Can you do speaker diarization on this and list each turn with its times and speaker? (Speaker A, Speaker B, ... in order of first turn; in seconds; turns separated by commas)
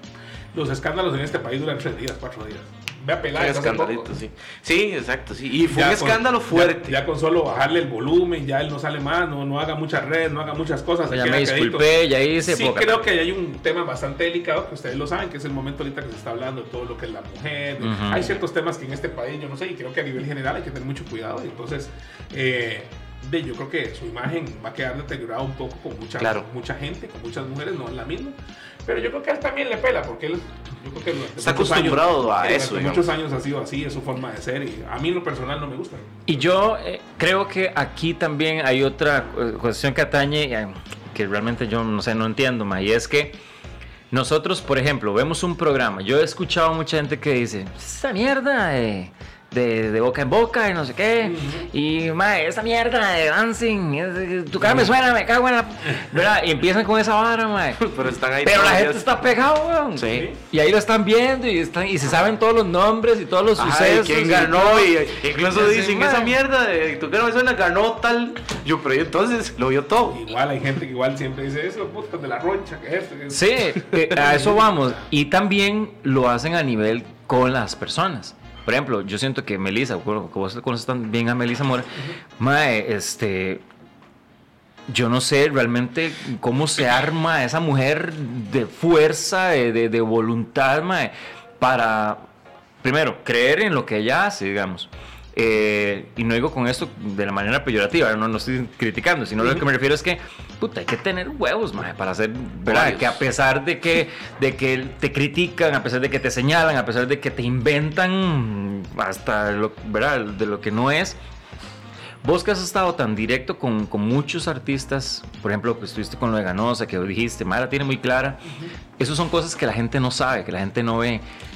Speaker A: 0.5-4.1, Speaker B: 3.4-7.0, Speaker A: 5.7-36.3, Speaker C: 11.1-13.0, Speaker C: 17.8-18.4, Speaker B: 31.4-33.1, Speaker C: 36.3-43.4, Speaker C: 44.1-57.9, Speaker A: 51.2-51.7, Speaker B: 57.8-59.1, Speaker C: 58.4-66.4, Speaker B: 60.0-60.3, Speaker A: 60.1-60.4, Speaker B: 63.6-70.2, Speaker A: 70.1-74.8, Speaker C: 73.3-83.6, Speaker C: 84.9-92.2, Speaker C: 92.8-111.2, Speaker B: 102.7-103.2, Speaker C: 112.2-118.4, Speaker A: 118.5-118.7, Speaker C: 119.0-121.2